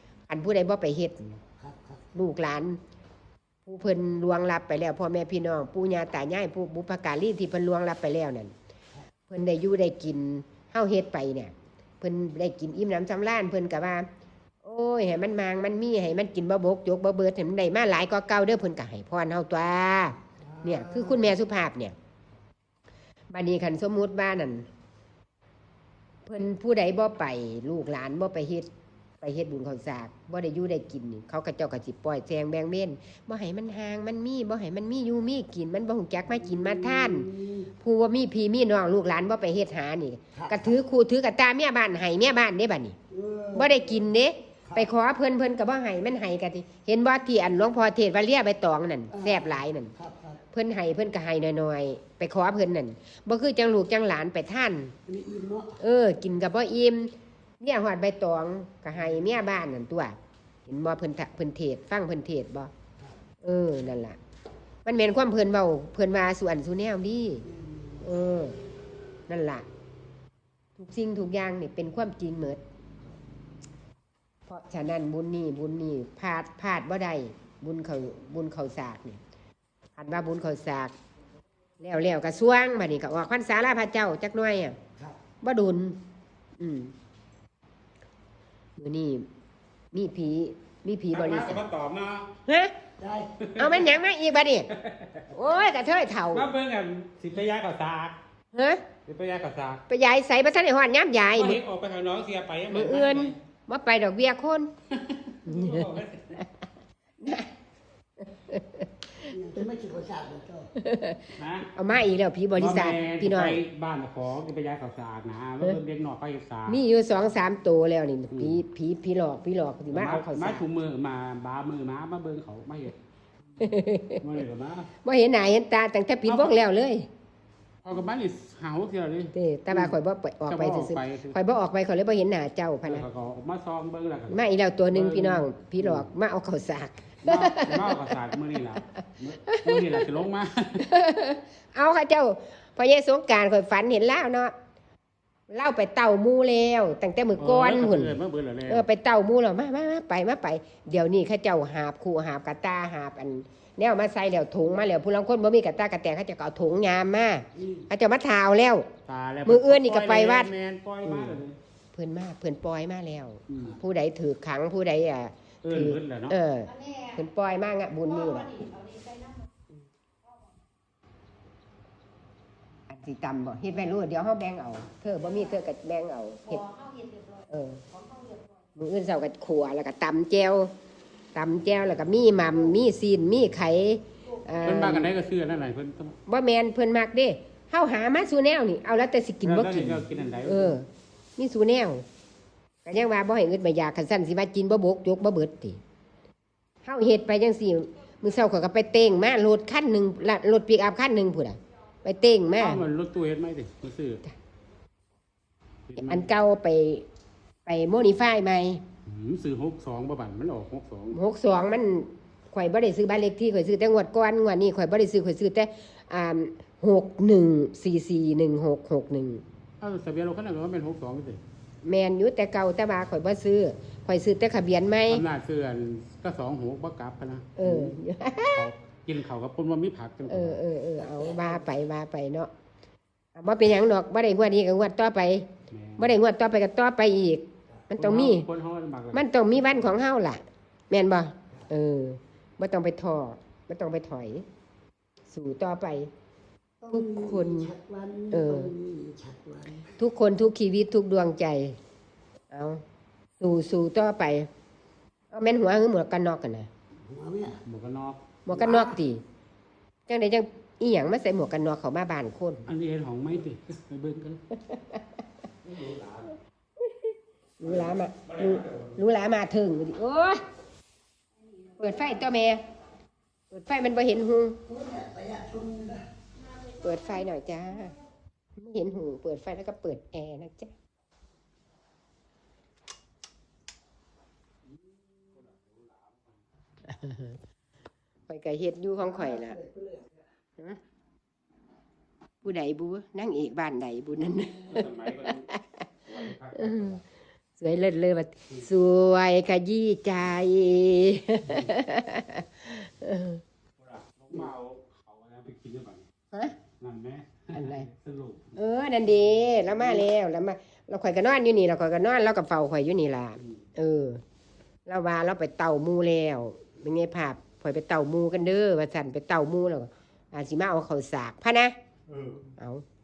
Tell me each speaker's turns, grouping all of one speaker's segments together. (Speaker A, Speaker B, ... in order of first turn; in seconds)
Speaker A: 0.3-1.4, 2.1-2.8, 3.6-8.5, 9.3-14.1, 14.6-21.9, 23.3-24.6, 26.2-28.7, 29.2-43.0, 43.5-49.9, 50.5-54.9, 55.8-62.7, 63.4-64.2, 64.8-67.5, 68.0-68.6, 69.3-69.7, 70.8-72.6, 74.5-79.2, 80.0-80.9, 81.8-84.8, 85.4-86.0, 86.6-86.9, 88.8-89.2, 89.9-91.6, 92.5-92.7, 93.6-94.7, 95.3-96.5, 98.5-98.8, 99.9-101.6, 102.7-104.7, 105.5-105.9, 107.2-107.5, 108.4-109.2, 110.8-113.6, 116.7-120.6, 123.6-124.2, 125.0-127.1, 129.3-133.1, 134.3-137.9, 139.4-140.1, 140.8-144.5, 145.5-148.2, 148.7-158.9, 159.4-160.5, 161.9-168.7, 172.9-176.8, 177.3-178.0, 178.7-180.7, 181.3-185.1, 186.2-190.8, 191.4-192.0, 192.8-195.8, 196.8-202.8, 206.0-207.1, 207.7-208.8, 211.1-219.4, 221.8-225.2, 227.6-228.7, 230.3-232.5, 233.3-238.5, 239.1-244.4, 245.3-246.1, 246.9-247.7, 248.3-248.7, 250.0-251.8, 252.5-252.8, 253.4-254.5, 255.3-256.7, 258.4-259.2, 260.1-262.6, 264.5-265.0, 266.8-270.4, 271.8-272.6, 273.5-274.6, 276.8-277.9, 278.6-280.7, 286.9-287.4, 288.3-289.6, 292.4-295.6, 296.5-297.0, 297.6-303.4, 307.5-307.9, 308.5-314.2, 314.9-321.7, 322.6-322.8
Speaker B: 1.6-2.1, 20.4-21.3, 36.3-37.7, 40.3-40.8, 43.1-44.0, 49.1-50.4, 55.0-55.8, 67.5-68.0, 93.0-93.3, 109.3-110.7, 157.6-157.9, 231.1-231.6, 246.8-249.9, 257.1-257.6, 258.5-259.0, 274.6-276.0, 289.0-290.2
Speaker C: 91.1-92.3, 93.4-93.9, 94.7-95.3, 96.3-98.2, 99.0-99.8, 101.3-103.3, 104.9-106.4, 111.3-111.7, 112.5-116.8, 118.3-118.6, 119.9-123.0, 124.2-124.9, 126.2-126.6, 127.8-130.0, 130.5-131.3, 132.9-134.4, 134.9-136.1, 137.2-140.8, 147.4-148.9, 159.1-161.6, 163.5-163.8, 165.6-166.3, 184.6-186.2, 189.4-190.8, 202.6-204.2, 205.9-206.3, 209.1-211.2, 219.8-221.4, 225.1-230.6, 235.7-236.2, 238.0-239.9, 257.6-258.2, 262.7-264.4, 265.6-266.3, 267.6-269.0, 285.2-286.4, 294.7-297.0, 301.4-301.7, 303.8-306.1, 306.8-308.6, 322.1-322.5